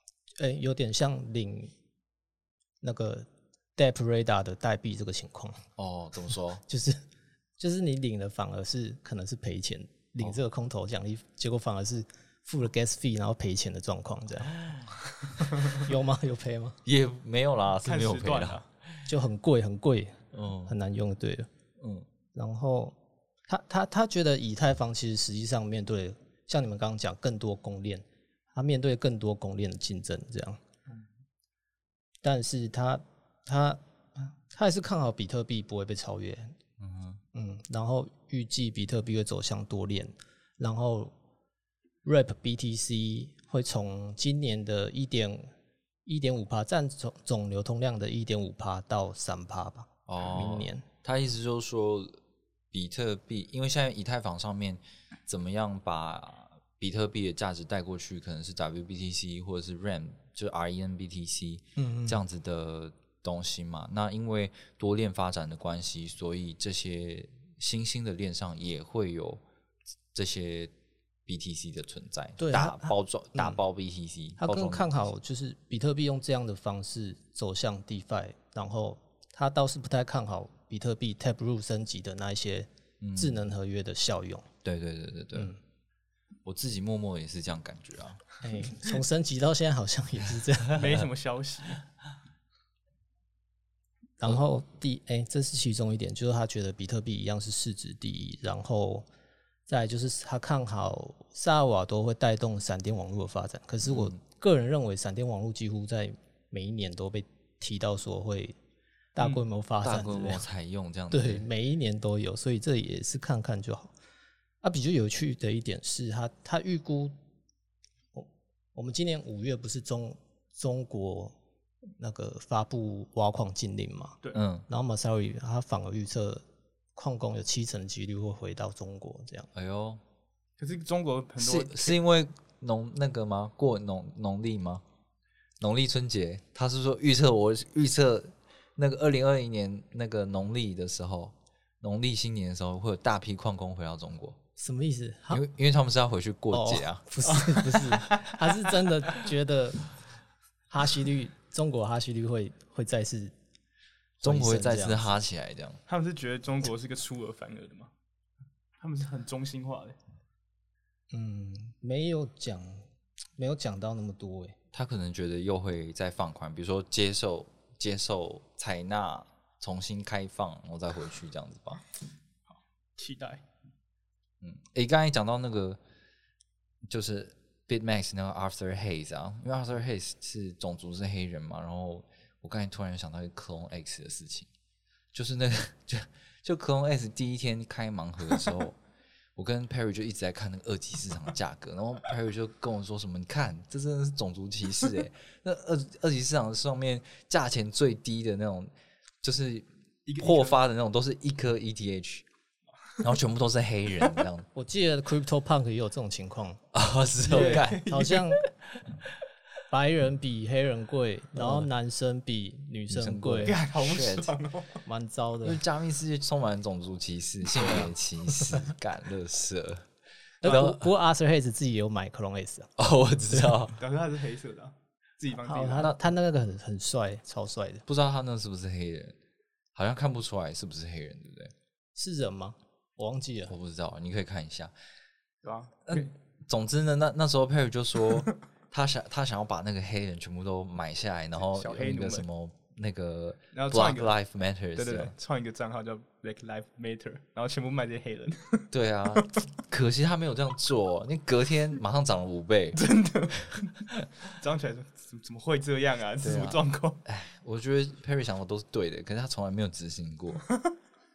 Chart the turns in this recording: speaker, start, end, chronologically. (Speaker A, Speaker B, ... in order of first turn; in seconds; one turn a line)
Speaker A: 0.4-1.7
Speaker A: 2.8-5.7
Speaker B: 5.8-6.6
Speaker A: 6.7-7.0
Speaker A: 7.6-14.8
Speaker A: 15.4-16.8
Speaker B: 16.8-19.0
Speaker C: 17.8-18.6
Speaker A: 19.1-21.5
Speaker B: 20.3-20.7
Speaker B: 21.8-22.1
Speaker A: 22.3-23.0
Speaker A: 23.5-30.6
Speaker A: 32.2-36.6
Speaker B: 36.8-37.2
Speaker A: 37.3-41.1
Speaker A: 42.0-45.5
Speaker A: 46.0-50.8
Speaker B: 50.1-69.4
Speaker A: 61.8-62.2
Speaker B: 70.1-70.7
Speaker B: 71.2-75.1
Speaker A: 72.4-73.6
Speaker A: 74.4-84.5
Speaker B: 83.0-83.5
Speaker B: 84.6-85.5
Speaker A: 85.3-85.6
Speaker B: 86.4-88.2
Speaker A: 88.4-90.8
Speaker C: 90.7-91.8
Speaker A: 94.2-99.1
Speaker A: 99.7-108.6
Speaker B: 103.8-104.2
Speaker A: 109.1-110.4
Speaker C: 109.2-109.4
Speaker B: 109.8-111.5
Speaker A: 111.1-113.9
Speaker A: 114.6-117.2
Speaker A: 118.1-121.4
Speaker A: 122.0-126.4
Speaker B: 124.3-124.7
Speaker A: 126.9-129.5
Speaker B: 129.5-130.0
Speaker C: 130.6-132.0
Speaker B: 131.4-134.8
Speaker B: 135.6-144.4
Speaker A: 144.6-145.4
Speaker B: 145.3-147.1
Speaker A: 146.5-149.9
Speaker C: 147.2-148.5
Speaker A: 150.7-153.3
Speaker B: 154.2-155.8
Speaker A: 154.2-155.1
Speaker C: 155.9-157.9
Speaker C: 158.8-160.0
Speaker A: 161.1-164.6
Speaker B: 164.7-171.8
Speaker C: 173.0-173.4
Speaker B: 174.4-175.8
Speaker B: 176.9-184.5
Speaker B: 185.1-188.8
Speaker B: 189.3-198.7
Speaker B: 199.2-202.3
Speaker C: 200.1-200.6
Speaker B: 203.0-204.5
Speaker A: 204.5-206.6
Speaker B: 206.7-207.8
Speaker C: 207.2-208.4
Speaker A: 207.2-208.4
Speaker B: 208.6-209.2
Speaker A: 209.7-213.5
Speaker B: 211.4-211.7
Speaker B: 212.9-214.4
Speaker C: 213.4-214.8
Speaker A: 214.8-215.6
Speaker B: 215.4-219.9
Speaker A: 217.5-217.9
Speaker B: 220.4-220.9
Speaker A: 220.4-222.7
Speaker B: 222.8-223.8
Speaker C: 223.8-226.0
Speaker A: 225.4-227.8
Speaker B: 227.8-229.2
Speaker B: 229.7-231.5
Speaker A: 231.9-233.5
Speaker B: 233.5-234.7
Speaker C: 235.4-236.1
Speaker B: 235.9-245.1
Speaker C: 241.3-242.2
Speaker C: 243.5-244.2
Speaker C: 244.8-249.4
Speaker B: 248.7-252.8
Speaker C: 252.8-257.0
Speaker B: 256.2-260.4